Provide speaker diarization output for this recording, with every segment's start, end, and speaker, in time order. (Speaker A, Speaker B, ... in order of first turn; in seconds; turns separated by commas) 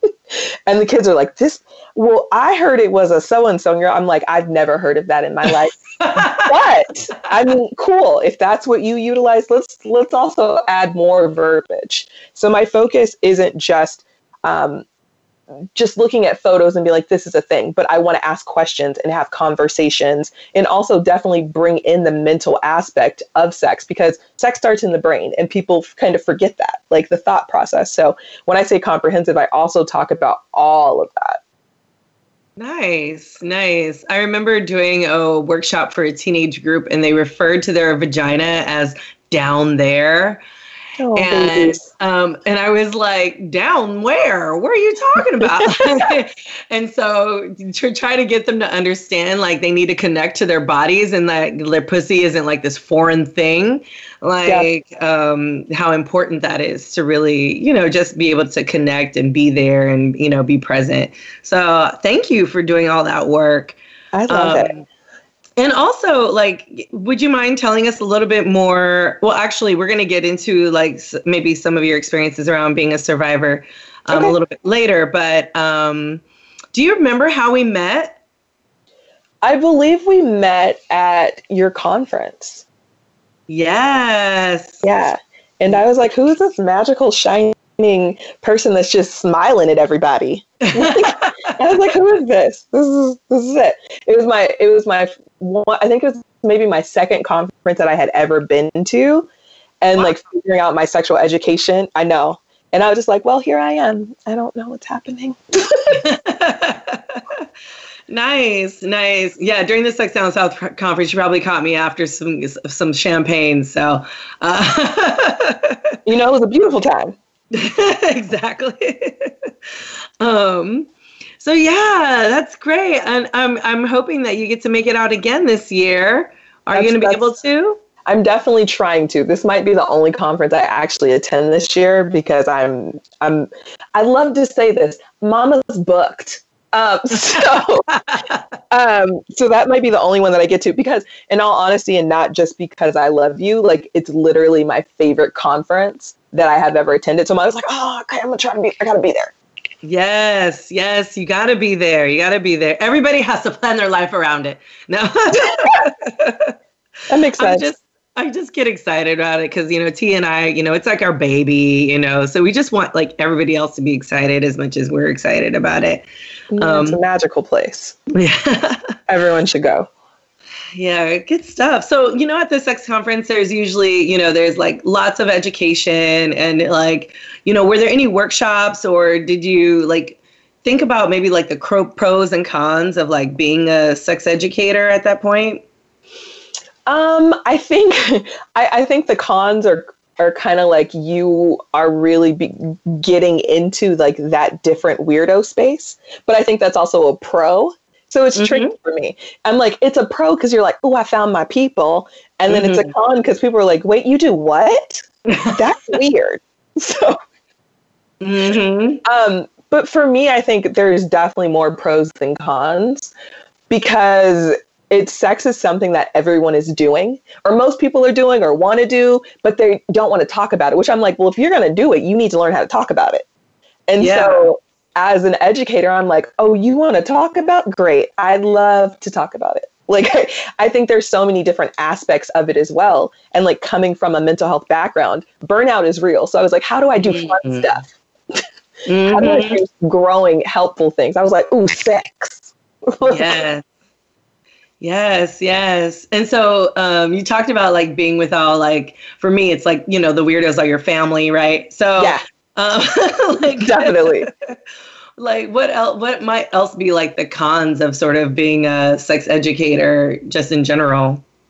Speaker A: 0.3-14.8, Speaker B: 6.0-6.6, Speaker A: 15.8-31.4, Speaker B: 32.6-40.4, Speaker A: 41.0-41.8, Speaker B: 41.1-63.8, Speaker A: 45.4-46.1, Speaker A: 64.1-64.7, Speaker B: 64.3-64.8, Speaker B: 65.6-76.2, Speaker A: 74.1-74.3, Speaker B: 76.7-78.2, Speaker A: 79.4-82.6, Speaker B: 83.5-84.8, Speaker A: 84.8-99.3, Speaker B: 90.7-91.6, Speaker A: 99.8-106.0, Speaker B: 105.9-107.4, Speaker B: 108.1-116.0, Speaker A: 116.1-117.2, Speaker B: 117.5-119.5, Speaker B: 120.2-120.9, Speaker B: 121.4-127.8, Speaker A: 126.7-127.3, Speaker A: 128.0-137.9, Speaker B: 137.4-138.4, Speaker A: 138.7-149.3, Speaker B: 149.8-156.5, Speaker A: 155.3-155.8, Speaker A: 157.1-157.7, Speaker B: 157.4-166.1, Speaker A: 166.5-168.0, Speaker B: 166.6-167.0, Speaker B: 168.1-168.9, Speaker A: 169.1-169.9, Speaker B: 170.8-185.6, Speaker A: 186.8-207.2, Speaker B: 198.3-198.7, Speaker B: 202.5-202.9, Speaker B: 205.3-205.7, Speaker B: 208.2-209.0, Speaker A: 209.0-213.1, Speaker A: 213.7-223.2, Speaker A: 223.9-238.4, Speaker B: 224.0-224.5, Speaker B: 237.0-237.7, Speaker B: 238.9-239.6, Speaker A: 239.1-243.4, Speaker B: 243.0-243.6, Speaker B: 244.8-254.5, Speaker A: 253.6-254.3, Speaker B: 255.2-261.2